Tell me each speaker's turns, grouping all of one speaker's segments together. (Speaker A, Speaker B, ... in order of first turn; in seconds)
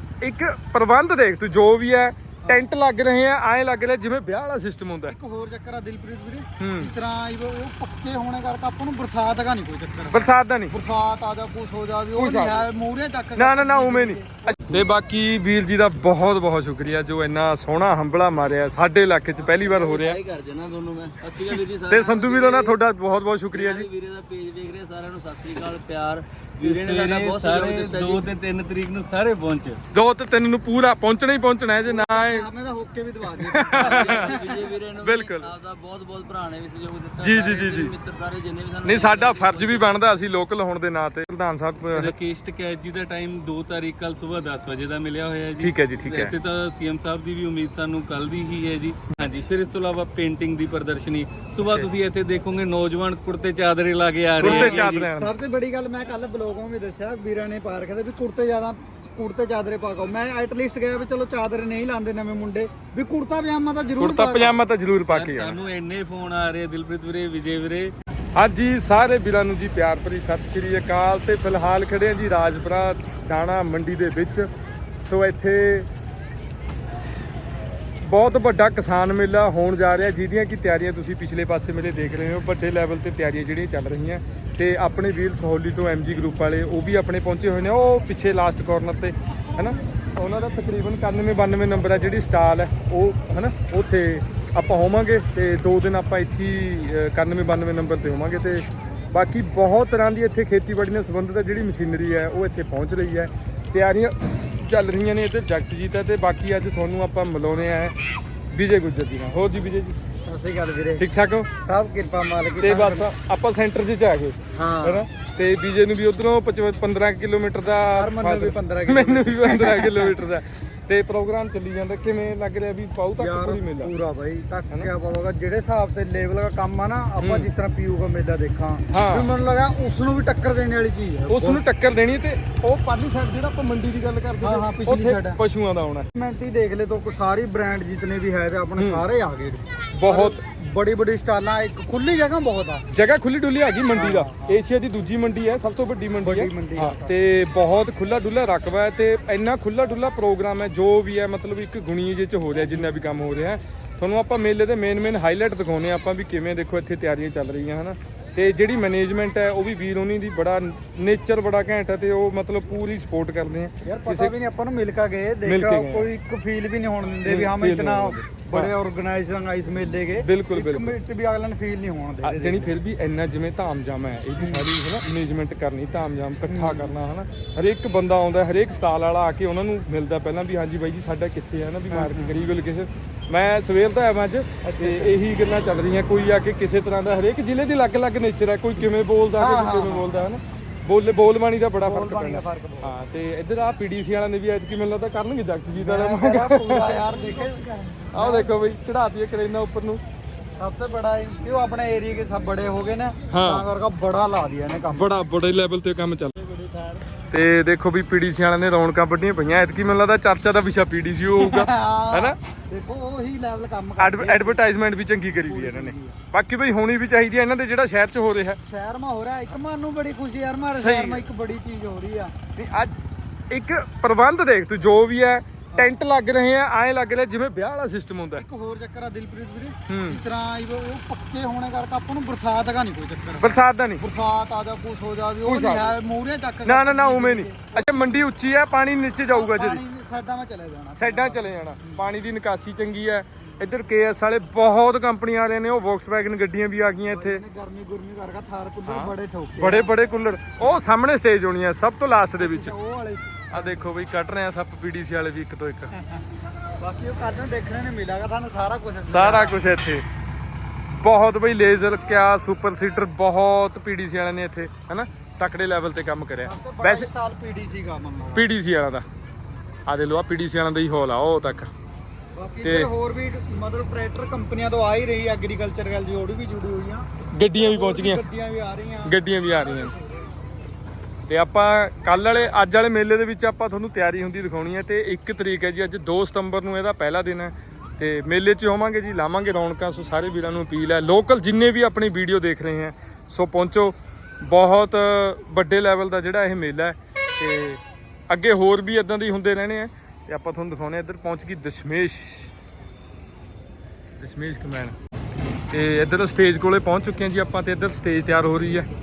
Speaker A: 0.2-5.2, 6.6-6.9, 10.1-10.7, 12.2-12.7, 13.3-20.2, 21.9-23.9, 29.9-32.5, 33.4-34.5, 35.0-35.5, 37.2-38.0, 38.8-42.1, 45.6-46.4, 51.6-51.9, 54.4-55.3, 64.0-65.6, 68.3-74.5, 75.0-75.9, 78.0-108.0, 108.5-110.0, 111.0-111.5, 112.6-123.9, 127.2-127.5, 128.9-129.3, 131.3-136.1, 138.8-139.0, 139.9-140.4, 142.9-164.3, 165.4-166.1, 167.2-168.7, 170.2-171.0, 172.2-197.3, 198.1-200.0, 203.3-203.7, 204.9-206.4, 207.3-212.4, 214.0-218.6, 220.7-221.3, 222.6-223.0, 223.5-228.4, 229.9-230.2, 233.4-234.0, 235.4-235.9, 236.6-239.8, 241.0-247.4, 248.9-252.8, 253.5-255.9, 259.1-260.1, 260.9-267.1, 268.3-269.1, 269.9-271.7, 272.6-272.9, 277.3-278.2, 279.1-279.9, 281.3-302.5, 304.2-304.9, 305.7-308.9
Speaker B: 2.5-2.7, 5.1-14.6, 31.9-34.7, 54.4-64.6, 110.3-111.1, 111.6-113.1, 114.5-115.0, 117.9-120.2, 123.2-131.6, 134.4-135.4, 136.2-142.9, 143.9-144.6, 146.2-147.1, 163.8-172.7, 174.4-174.6, 176.5-176.9, 181.9-182.5, 184.7-185.2, 189.4-190.4, 191.8-192.9, 195.8-198.5, 200.6-205.1, 211.4-214.6, 215.4-216.2, 218.6-222.3, 225.7-226.0, 228.4-238.3, 239.3-242.1, 247.1-249.9, 252.4-253.9, 256.8-259.6, 266.4-268.5, 272.3-280.1
Speaker C: 19.4-22.8, 23.5-28.3, 33.7-40.0
Speaker D: 26.6-29.8, 41.9-55.1, 65.0-68.0